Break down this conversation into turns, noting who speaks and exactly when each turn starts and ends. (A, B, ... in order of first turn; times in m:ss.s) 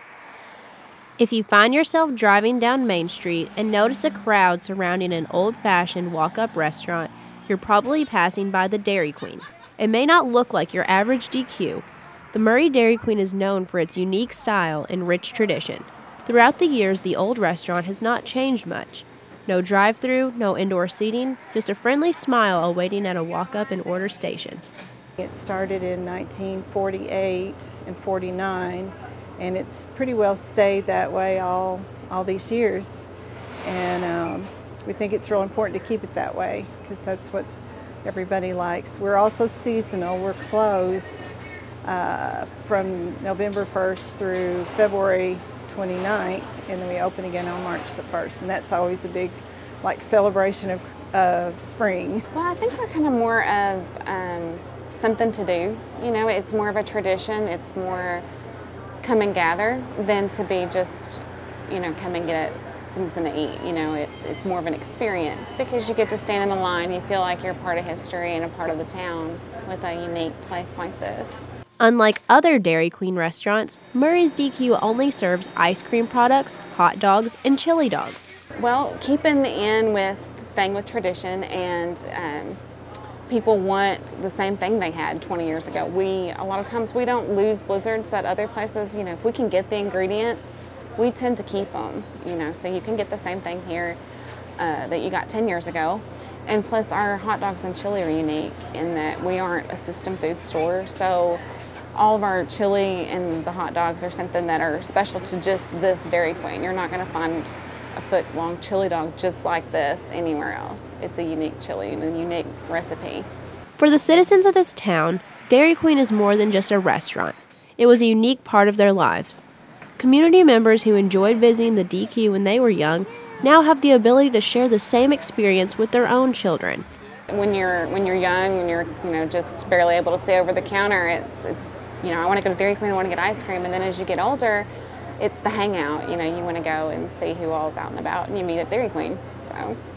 0:01.2-0:24.6 A
0:25.2-0:33.1 B
0:33.6-0:37.5 B
0:38.0-0:52.2 B
0:52.3-0:58.2 C
0:59.0-1:11.3 C
1:11.8-1:18.3 A
1:18.6-1:22.6 C
1:23.3-1:34.0 C
1:34.6-1:41.4 C
1:41.9-1:53.3 C
1:53.8-1:59.4 A
2:00.0-2:06.8 A
2:07.3-2:14.7 C
2:15.2-2:19.8 C